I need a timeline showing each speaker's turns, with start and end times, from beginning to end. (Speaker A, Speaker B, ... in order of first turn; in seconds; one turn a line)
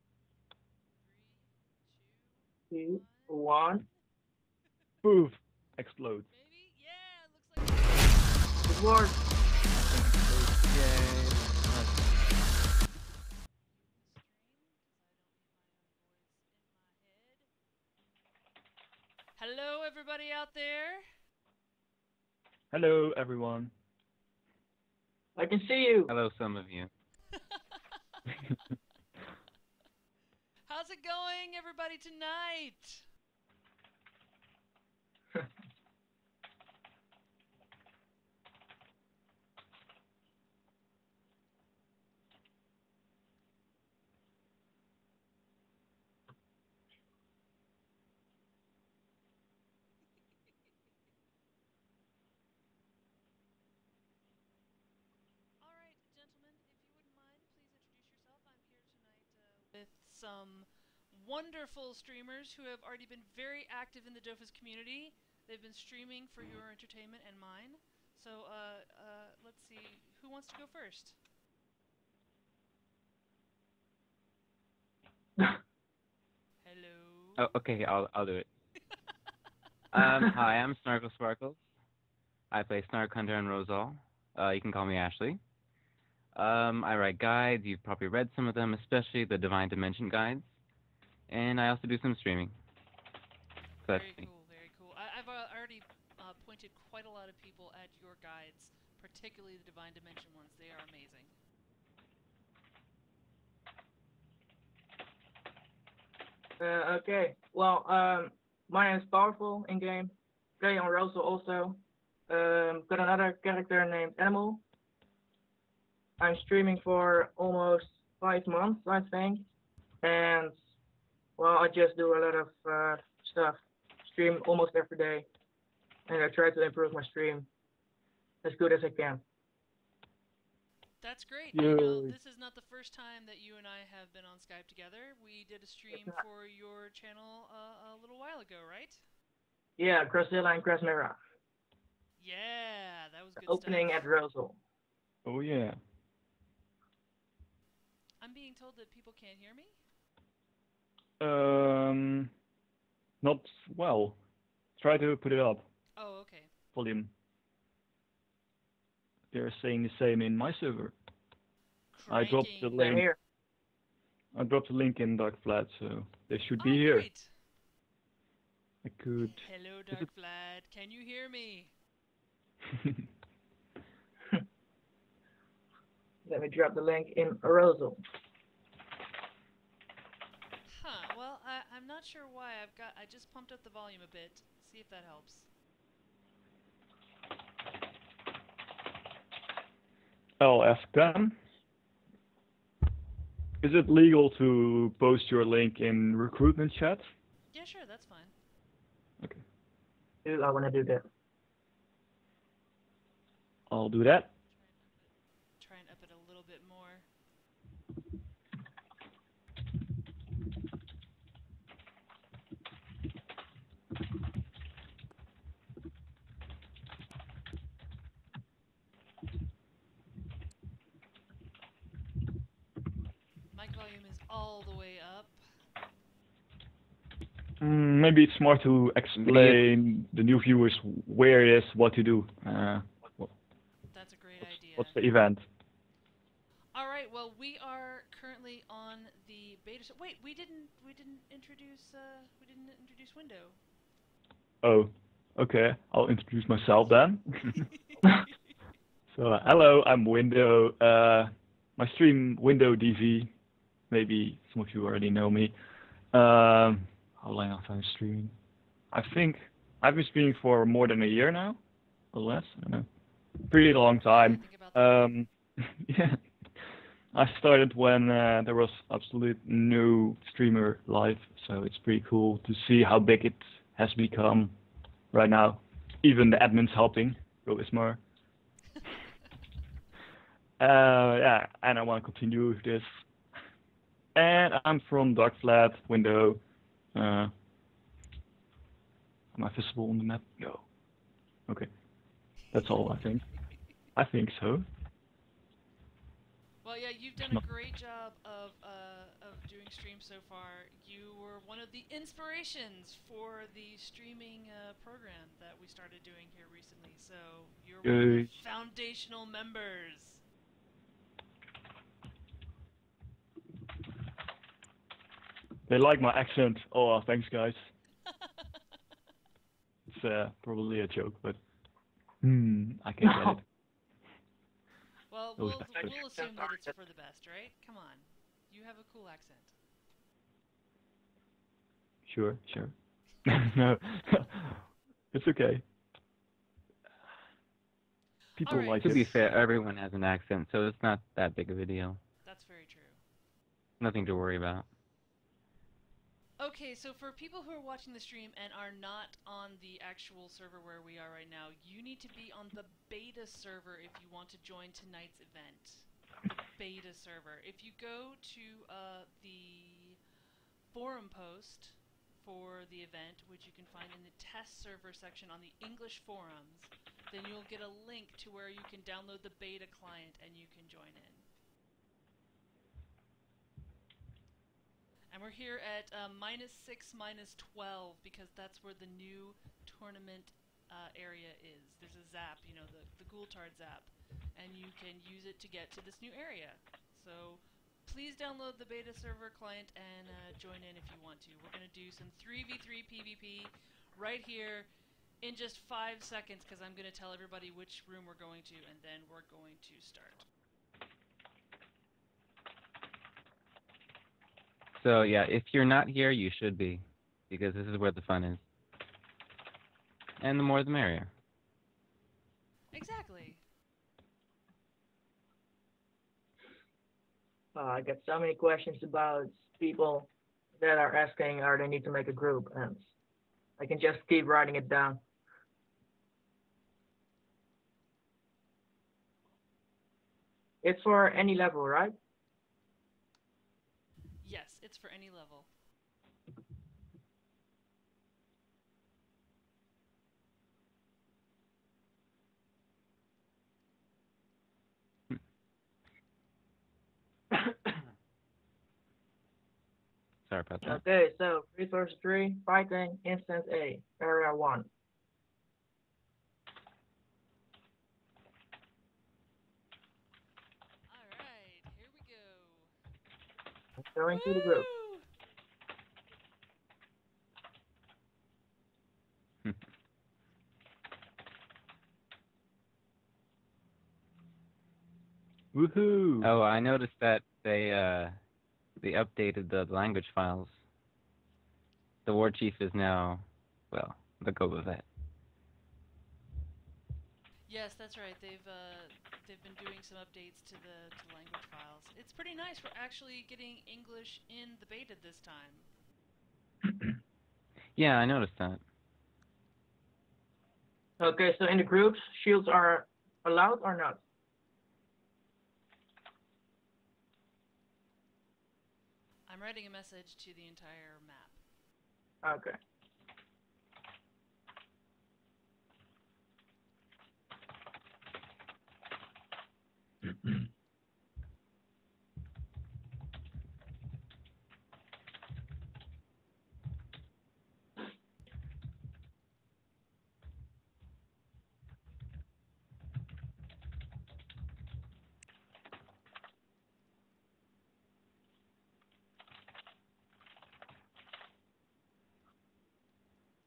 Speaker A: 1.0-3.7
Speaker B: 2.7-3.9
Speaker C: 5.0-6.3
Speaker A: 6.3-8.2
Speaker B: 8.6-9.2
Speaker D: 9.7-12.1
Speaker A: 13.7-17.5
Speaker A: 19.4-21.1
Speaker C: 22.7-23.7
Speaker B: 25.4-26.1
Speaker D: 26.1-26.9
Speaker A: 27.3-27.6
Speaker A: 30.7-33.0
Speaker A: 55.6-71.2
Speaker A: 76.6-77.4
Speaker D: 77.4-78.5
Speaker D: 79.9-81.6
Speaker D: 82.5-85.4
Speaker D: 86.3-90.5
Speaker D: 91.3-92.5
Speaker D: 93.8-94.3
Speaker A: 93.9-101.3
Speaker B: 106.6-114.6
Speaker B: 116.2-119.5
Speaker B: 120.0-120.6
Speaker B: 121.4-125.3
Speaker B: 126.1-127.5
Speaker B: 128.4-129.2
Speaker A: 131.0-139.0
Speaker C: 131.5-132.2
Speaker B: 139.8-141.2
Speaker A: 142.2-144.0
Speaker B: 143.5-144.6
Speaker C: 145.2-145.8
Speaker A: 148.2-149.8
Speaker C: 151.2-152.3
Speaker C: 153.2-154.2
Speaker C: 154.8-155.7
Speaker A: 156.0-156.5
Speaker C: 156.7-157.1
Speaker C: 159.3-160.9
Speaker A: 162.0-163.0
Speaker C: 162.1-163.1
Speaker B: 162.8-163.2
Speaker C: 164.3-167.1
Speaker A: 166.6-167.3
Speaker C: 168.8-170.1
Speaker A: 169.4-171.7
Speaker B: 176.2-178.0
Speaker A: 180.7-185.5
Speaker C: 190.4-191.4
Speaker C: 193.6-197.1
Speaker A: 197.5-198.3
Speaker B: 200.2-201.1
Speaker C: 203.7-204.3
Speaker A: 204.5-207.1
Speaker A: 223.5-225.4
Speaker C: 227.6-233.3
Speaker D: 229.2-229.6
Speaker A: 233.9-235.0
Speaker C: 234.6-235.4
Speaker A: 236.7-243.6
Speaker C: 244.6-247.7
Speaker C: 249.1-253.3
Speaker C: 253.9-255.6
Speaker C: 256.1-258.4
Speaker C: 258.9-274.6
Speaker A: 264.1-265.1
Speaker C: 275.1-278.0
Speaker C: 280.6-282.9
Speaker C: 284.1-286.4
Speaker C: 286.9-287.3
Speaker C: 289.3-290.7
Speaker C: 292.5-293.3
Speaker C: 293.9-294.6
Speaker A: 296.6-310.2
Speaker C: 297.2-297.4
Speaker C: 307.8-308.3
Speaker C: 315.7-317.7
Speaker C: 319.9-321.4
Speaker C: 322.2-323.4
Speaker A: 325.1-329.5
Speaker C: 325.4-325.9
Speaker B: 325.8-326.6
Speaker C: 332.1-335.6
Speaker C: 338.4-339.2
Speaker A: 338.4-339.0
Speaker D: 338.8-342.0
Speaker A: 342.2-343.0
Speaker D: 343.8-344.7
Speaker A: 346.4-360.0
Speaker A: 360.7-371.2
Speaker A: 375.1-394.7
Speaker A: 395.2-400.2
Speaker D: 404.8-408.4
Speaker D: 410.2-411.1
Speaker A: 412.7-413.4
Speaker B: 417.5-422.9
Speaker B: 423.6-425.0
Speaker B: 430.6-431.9
Speaker A: 434.2-435.5
Speaker D: 450.3-450.8
Speaker B: 450.6-454.7
Speaker A: 460.9-462.7
Speaker B: 463.8-464.6
Speaker A: 464.1-465.1
Speaker C: 475.5-476.3
Speaker D: 476.2-478.2
Speaker D: 478.8-480.5
Speaker D: 482.1-484.9
Speaker A: 487.5-495.7
Speaker D: 497.8-498.6
Speaker B: 501.0-504.0
Speaker A: 509.3-511.4
Speaker B: 512.2-512.6